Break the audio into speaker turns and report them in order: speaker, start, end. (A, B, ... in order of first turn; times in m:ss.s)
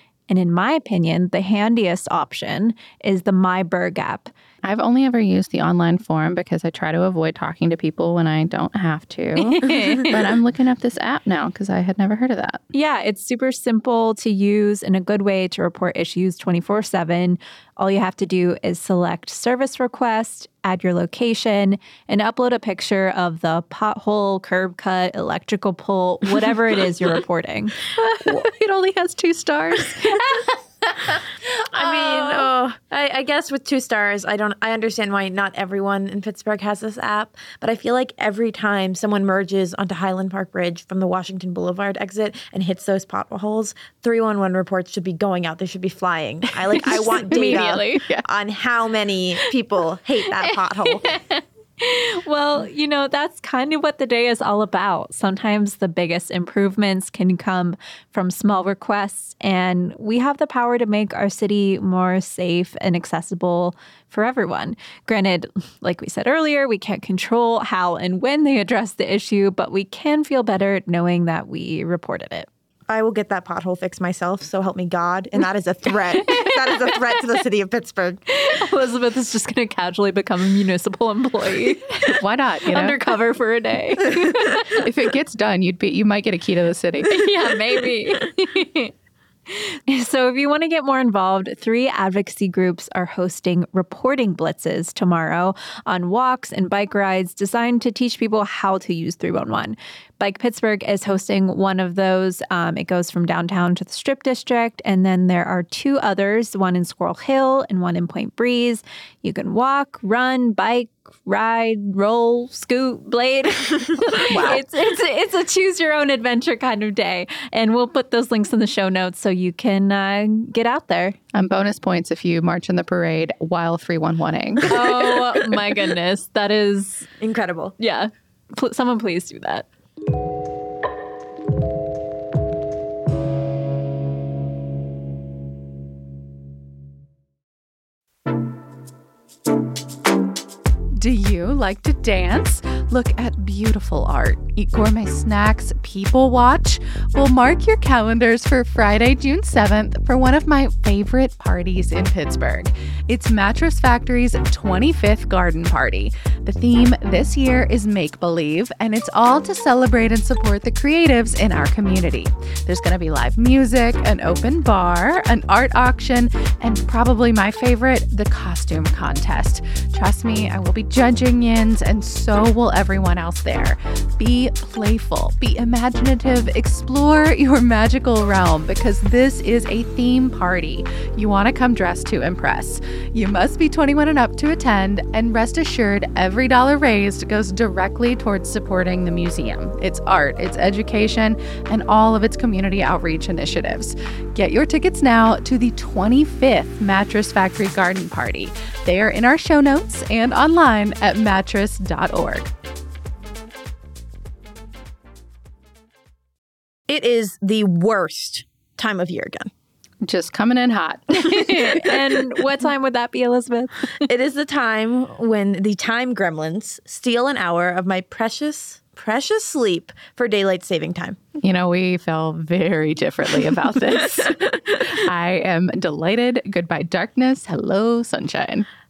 0:00.3-0:04.3 A
0:04.6-0:12.6 B
0:09.4-0:10.3 A
0:12.7-0:27.9 A
0:27.9-0:30.2 B
0:29.8-0:31.2 A
0:31.7-0:51.0 C
0:31.8-0:32.4 A
0:46.7-0:48.1 A
0:47.4-0:48.2 B
0:50.4-1:12.5 A
1:12.9-1:18.2 C
1:16.2-1:16.8 A
1:18.3-1:24.8 A
1:22.2-1:23.0 B
1:24.8-1:27.2 B
1:27.0-1:28.9 A
1:29.5-2:01.2 A
1:54.3-1:54.6 B
2:01.3-2:05.2 B
2:04.7-2:07.1 A
2:07.2-2:07.7 C
2:07.8-2:09.7 A
2:21.0-3:22.5 B
3:26.9-3:29.5 C
3:30.0-3:32.0 B
3:31.3-3:34.0 A
3:34.0-3:41.2 C
3:41.4-3:48.7 B
3:44.4-3:44.8 C